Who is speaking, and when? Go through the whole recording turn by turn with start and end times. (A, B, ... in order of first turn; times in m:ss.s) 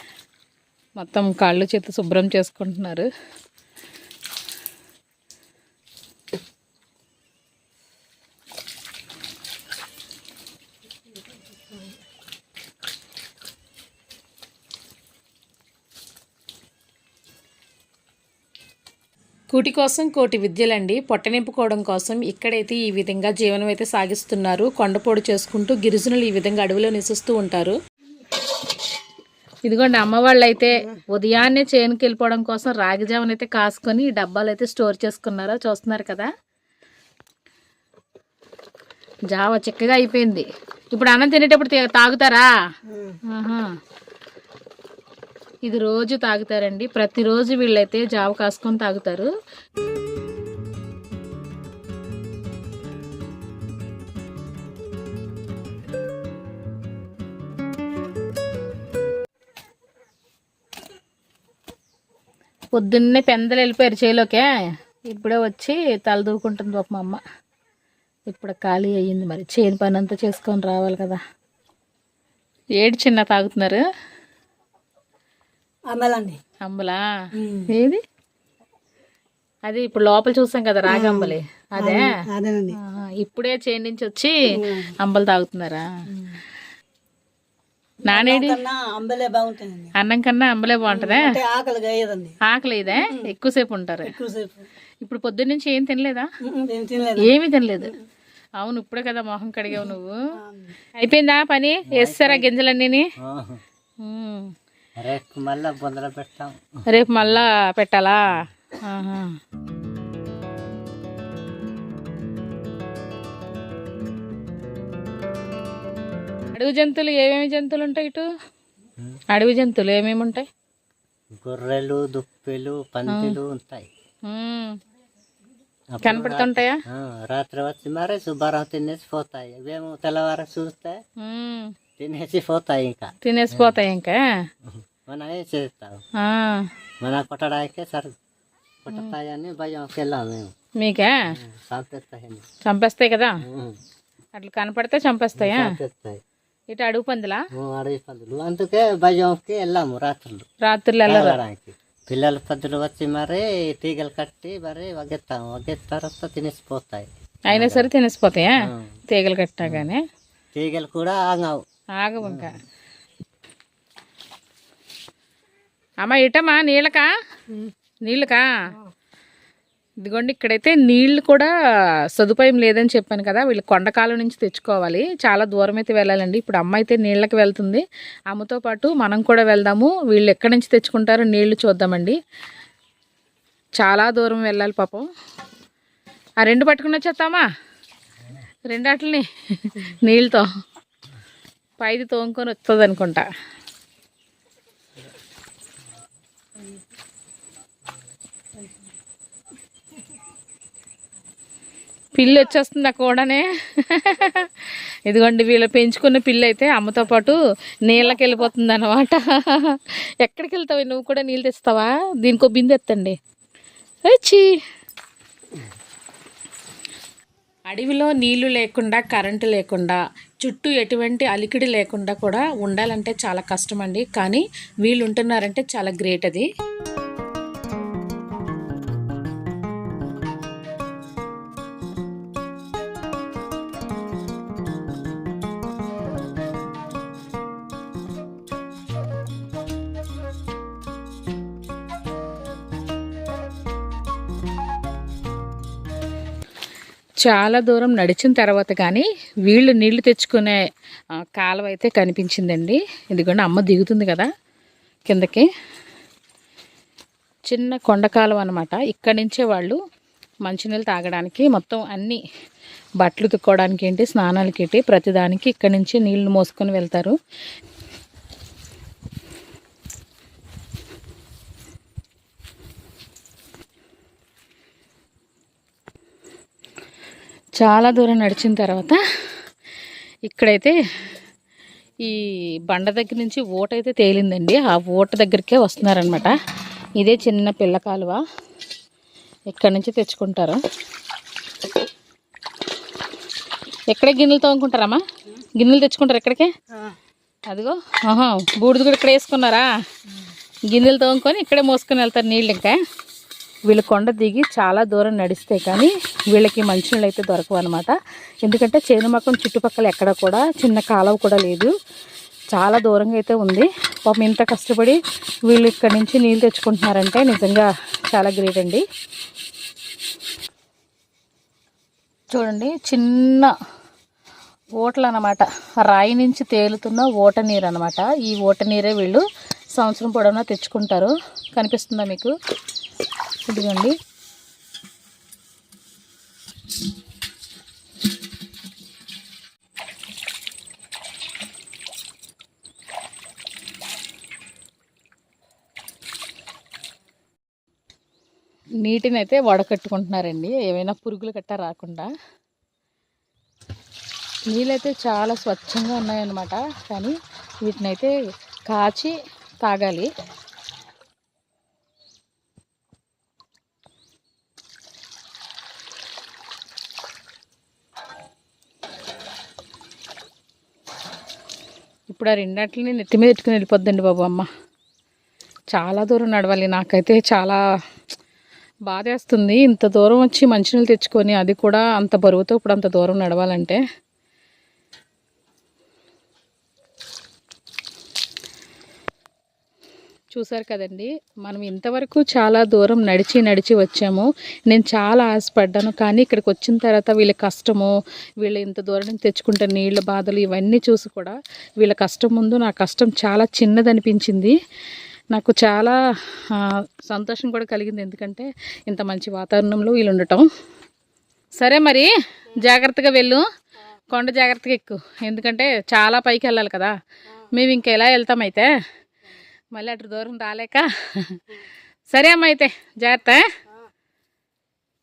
0:01.0-0:03.1 A
0:19.5-0:27.8 A
0:29.6-0:36.3 A
0:39.3-0:42.5 A
0:42.9-0:43.2 B
0:43.3-0:43.7 A
0:45.6-0:49.3 A
1:02.7-1:04.5 A
1:05.1-1:07.2 A
1:08.3-1:11.2 A
1:12.8-1:13.8 A
1:15.9-1:16.4 B
1:16.6-1:17.0 A
1:17.4-1:17.7 B
1:17.7-1:18.0 A
1:19.7-1:22.1 A
1:20.9-1:22.8 B
1:22.8-1:24.4 A
1:24.5-1:24.9 B
1:25.0-1:25.9 A
1:28.1-1:29.9 B
1:28.1-1:28.6 A
1:30.0-1:31.4 A
1:30.9-1:32.4 B
1:32.4-1:34.1 A
1:32.9-1:33.3 B
1:34.1-1:34.7 B
1:35.0-1:36.3 A
1:36.4-1:37.9 B
1:37.2-1:37.9 A
1:38.6-1:40.2 A
1:39.7-1:40.8 B
1:41.0-1:43.1 A
1:41.9-1:42.5 C
1:43.2-1:43.6 C
1:44.0-1:44.5 A
1:45.0-1:46.6 C
1:46.9-1:49.4 A
1:56.5-1:58.3 A
1:59.3-2:00.5 A
2:01.4-2:03.9 C
2:03.1-2:03.4 A
2:04.3-2:04.8 A
2:05.9-2:11.0 C
2:06.0-2:06.8 A
2:11.2-2:11.8 A
2:12.0-2:13.8 C
2:13.2-2:14.2 A
2:14.6-2:16.0 C
2:16.2-2:16.7 A
2:17.0-2:18.1 C
2:18.8-2:20.5 C
2:20.8-2:21.3 A
2:21.3-2:22.4 C
2:22.6-2:23.4 A
2:23.4-2:23.8 C
2:24.4-2:25.8 A
2:25.4-2:26.2 C
2:26.7-2:27.4 A
2:27.5-2:30.5 C
2:30.6-2:31.4 A
2:31.1-2:37.9 C
2:37.5-2:40.0 A
2:38.6-2:39.0 C
2:39.6-2:39.9 C
2:40.6-2:41.6 C
2:42.0-2:42.6 A
2:42.2-2:42.5 C
2:46.0-2:47.1 A
2:48.1-2:48.5 A
2:50.0-2:51.5 A
2:52.2-3:02.2 A
3:03.8-3:05.1 A
3:06.4-3:07.4 A
3:08.7-3:10.5 A
3:11.8-3:13.3 A
3:22.2-3:24.5 A
3:25.1-3:33.2 A
3:34.1-3:34.5 A
3:37.7-3:46.5 A
4:07.2-4:10.6 A
4:11.2-4:14.3 A
4:15.1-4:15.5 A
4:17.5-4:19.8 A
4:20.4-4:22.2 A
4:23.0-4:27.2 A
4:37.6-4:39.0 A
4:40.3-4:40.8 A
4:42.0-4:46.4 A
4:47.0-4:48.2 A
4:49.5-4:50.6 A
4:53.9-4:55.0 A
4:55.6-4:56.5 A
4:57.5-4:59.7 A
5:00.7-5:02.8 A
5:03.7-5:11.7 A
5:12.5-5:18.8 A
5:22.3-5:23.6 A
5:24.8-5:29.2 A
5:29.8-5:32.3 A
5:33.5-5:34.0 A
5:48.8-5:52.1 A
5:54.5-5:58.1 A
5:58.7-6:00.1 A
6:12.1-6:14.5 A
6:15.7-6:17.6 A
6:18.9-6:23.8 A
6:30.4-6:44.6 A
6:45.3-6:46.0 A
6:46.5-6:50.5 A
6:51.6-6:53.4 A
6:54.1-6:56.9 A
6:57.5-6:58.7 A
6:59.7-7:01.4 A
7:02.1-7:03.4 A